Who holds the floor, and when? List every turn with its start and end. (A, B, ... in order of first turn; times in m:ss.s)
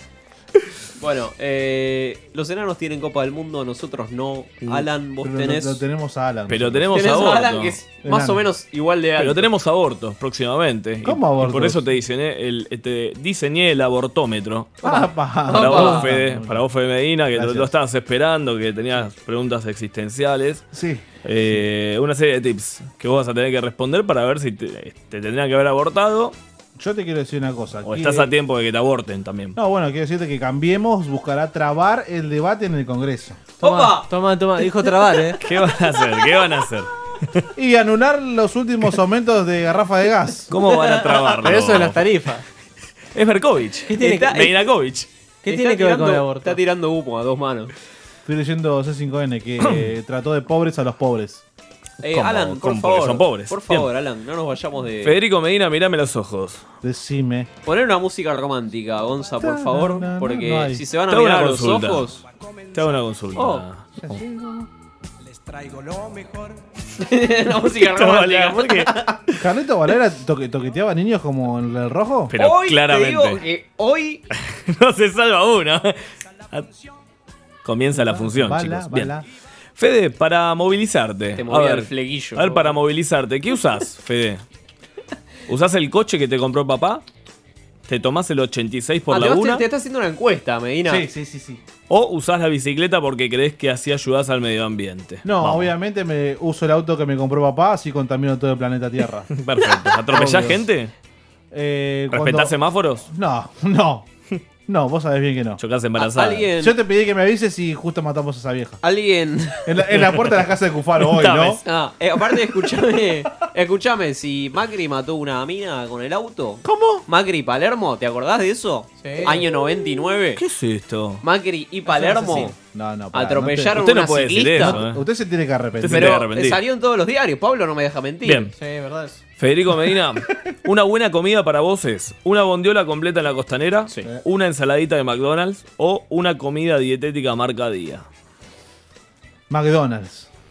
0:01.0-0:05.8 A
0:05.2-0:06.9 B
0:06.5-0:07.8 C
0:06.9-0:09.5 A
0:08.0-0:08.5 B
0:09.2-0:14.8 C
0:11.0-0:11.8 B
0:14.8-0:16.1 A
0:14.8-0:16.6 B
0:15.5-0:20.7 C
0:17.3-0:17.7 B
0:20.7-0:21.1 B
0:21.2-0:26.4 C
0:26.8-0:28.3 B
0:27.8-0:29.6 C
0:29.6-0:33.4 B
0:33.6-0:34.1 A
0:33.6-0:35.4 D
0:35.4-0:37.4 C
0:37.6-0:40.5 B
0:40.5-0:42.0 C
0:40.6-0:41.4 A
0:41.4-0:42.4 D
0:43.1-0:45.1 C
0:43.9-0:44.4 D
0:44.0-0:44.6 A
0:45.4-0:46.6 D
0:45.5-0:47.7 A
0:48.2-0:51.4 B
0:52.0-0:55.2 A
0:52.0-0:53.9 C
0:55.0-0:56.6 C
0:56.8-0:57.5 B
0:57.7-1:02.2 A
0:59.4-1:00.8 B
1:01.1-1:02.1 C
1:02.7-1:04.2 C
1:03.4-1:03.6 A
1:04.0-1:04.7 B
1:07.0-1:09.2 A
1:07.7-1:09.0 C
1:09.4-1:12.3 B
1:12.3-1:13.4 C
1:12.4-1:14.2 A
1:14.5-1:16.0 C
1:17.6-1:19.1 C
1:17.9-1:19.3 B
1:19.8-1:24.4 C
1:21.4-1:22.8 A
1:25.5-1:27.0 C
1:27.9-1:29.7 C
1:29.1-1:31.1 A
1:30.8-1:31.6 B
1:31.9-1:35.7 C
1:35.2-1:39.3 B
1:39.3-1:40.9 C
1:40.1-1:40.6 B
1:41.5-1:42.5 B
1:42.1-1:43.1 C
1:43.0-1:44.1 B
1:44.7-1:45.6 B
1:45.6-1:46.5 C
1:46.0-1:46.8 A
1:46.6-1:48.8 B
1:48.8-1:50.1 A
1:49.7-1:51.6 B
1:51.1-1:51.6 C
1:51.6-2:00.4 A
1:56.6-1:57.0 B
1:59.0-1:59.4 D
2:00.4-2:01.2 C
2:01.2-2:02.6 A
2:01.9-2:02.5 D
2:02.2-2:03.8 B
2:03.1-2:04.8 A
2:03.8-2:05.0 C
2:04.6-2:06.2 B
2:05.8-2:06.6 C
2:05.9-2:08.5 A
2:08.2-2:08.5 C
2:08.6-2:09.2 D
2:09.4-2:18.0 C
2:19.5-2:20.3 B